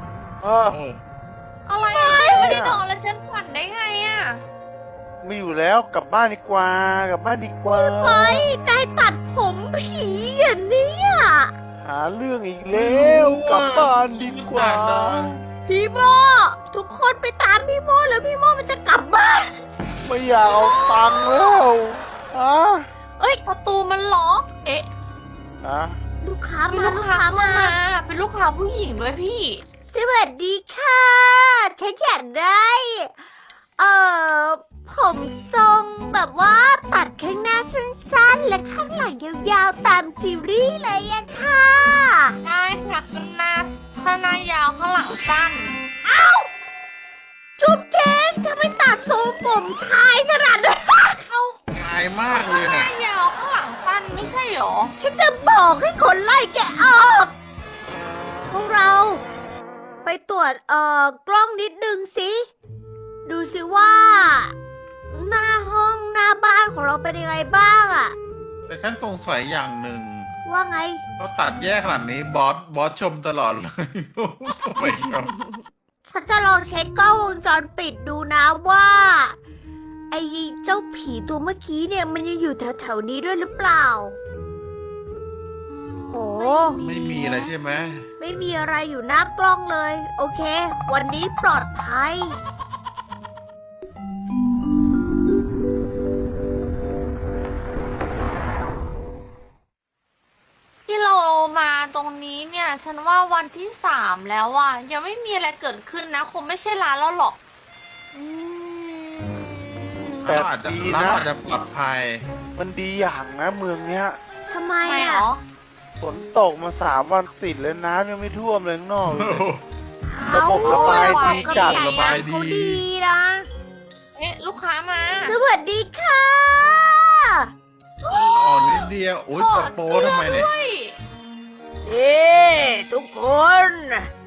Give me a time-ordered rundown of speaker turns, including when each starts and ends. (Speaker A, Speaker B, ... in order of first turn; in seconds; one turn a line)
Speaker A: 0.4-0.8
Speaker B: 0.7-1.0
Speaker C: 1.7-4.4
Speaker D: 1.9-2.5
Speaker A: 2.3-2.8
Speaker A: 5.2-8.5
Speaker D: 7.7-11.5
Speaker A: 11.8-15.3
Speaker B: 12.7-15.4
Speaker D: 15.7-19.6
Speaker A: 20.0-22.9
Speaker C: 20.5-21.6
Speaker C: 23.4-24.9
Speaker A: 25.6-26.0
Speaker D: 26.2-27.8
Speaker C: 26.7-29.6
Speaker D: 29.9-33.1
Speaker D: 33.8-42.4
Speaker C: 42.4-45.8
Speaker D: 46.0-46.5
Speaker D: 47.6-51.2
Speaker C: 51.3-51.6
Speaker B: 51.7-52.9
Speaker C: 52.3-54.9
Speaker D: 55.0-57.3
Speaker D: 58.5-59.2
Speaker D: 60.0-62.5
Speaker D: 63.2-64.5
Speaker D: 65.1-68.2
Speaker B: 68.7-70.3
Speaker D: 70.5-71.0
Speaker B: 71.2-75.3
Speaker D: 74.8-79.3
Speaker D: 80.1-84.2
Speaker C: 85.7-87.5
Speaker D: 86.1-86.8
Speaker B: 86.8-88.1
Speaker D: 88.2-92.4
Speaker C: 100.9-107.4
Speaker D: 108.1-110.4
Speaker A: 110.2-111.3
Speaker B: 110.2-112.2
Speaker A: 112.5-114.2
Speaker D: 114.5-115.3
Speaker C: 114.8-115.4
Speaker A: 116.0-119.4
Speaker B: 119.1-119.6
Speaker D: 120.0-123.5
Speaker A: 120.3-121.8
Speaker C: 120.6-122.2
Speaker B: 121.1-122.8
Speaker C: 124.1-125.3
Speaker D: 125.2-127.5
Speaker C: 128.0-130.9
Speaker B: 128.3-130.5
Speaker D: 131.8-134.1